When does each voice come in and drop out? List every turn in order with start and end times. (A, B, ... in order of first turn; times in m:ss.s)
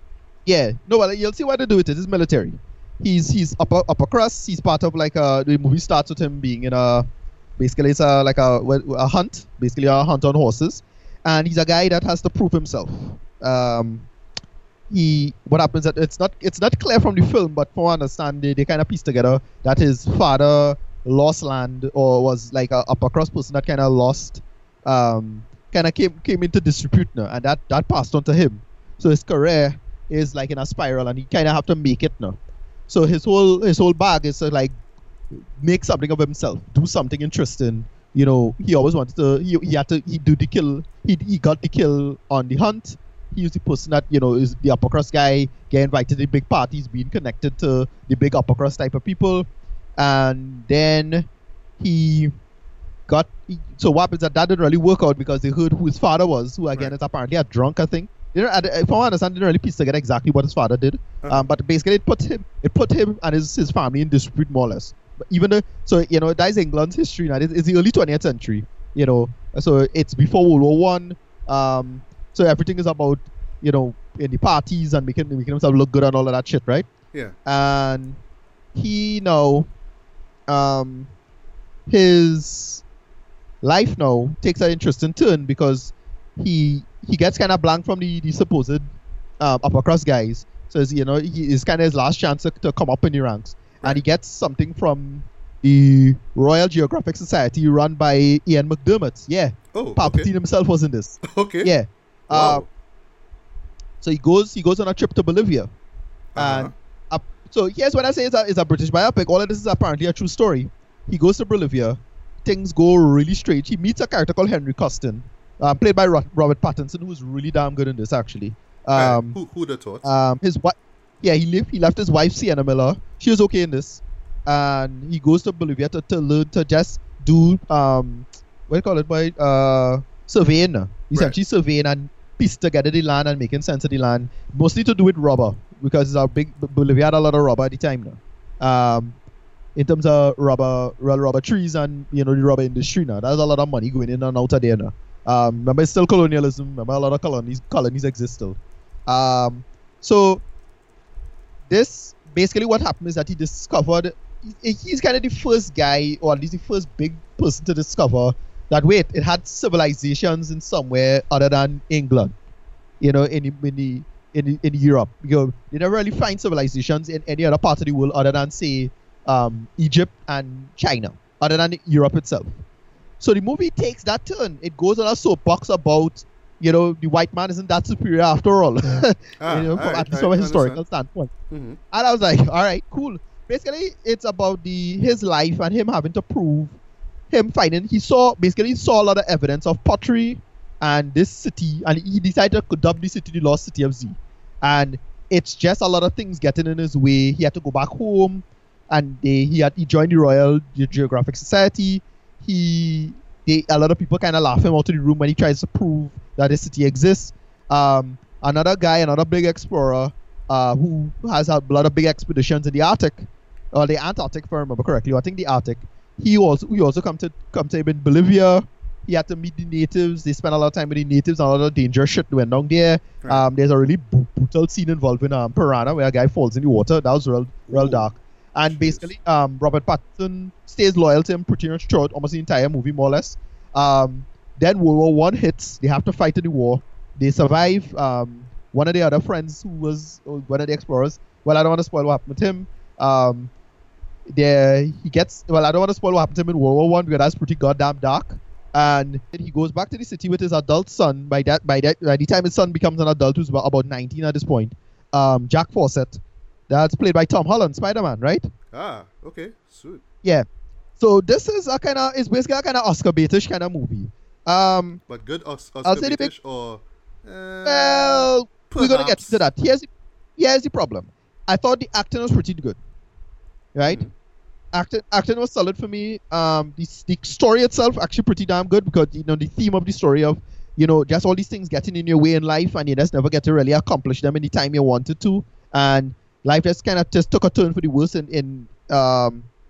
0:00.4-0:07.0 A
0:07.6-0:14.1 A
0:14.9-0:32.4 A
0:32.9-0:34.7 A
0:35.6-0:49.4 A
0:50.0-0:51.3 A
0:51.8-0:52.3 A
0:53.1-1:16.9 A
1:01.2-1:01.5 B
1:17.4-1:18.2 A
1:18.7-1:19.7 A
1:20.5-1:21.1 A
1:21.9-1:22.8 A
1:23.6-1:28.8 A
1:29.4-1:42.6 A
1:39.7-1:40.3 B
1:41.2-1:41.7 B
1:42.3-1:42.7 B
1:44.0-1:45.7 A
1:46.3-1:46.7 B
1:46.4-1:59.4 A
1:58.9-2:00.0 B
2:00.0-2:19.2 A
2:19.8-2:30.4 A
2:31.7-2:42.3 A
2:43.0-2:52.6 A
2:53.2-3:01.3 A
2:59.4-3:00.8 B
3:01.5-3:01.8 B
3:01.9-3:06.8 A
3:07.3-4:03.5 A
3:47.7-3:48.1 B
3:48.7-3:49.1 B
4:04.3-4:18.5 A
4:18.7-4:20.0 B
4:21.0-4:25.0 A
4:25.1-4:29.4 B
4:25.8-4:26.3 A
4:27.6-4:32.8 A
4:33.7-4:34.0 A
4:33.8-4:34.1 B
4:34.7-4:49.5 A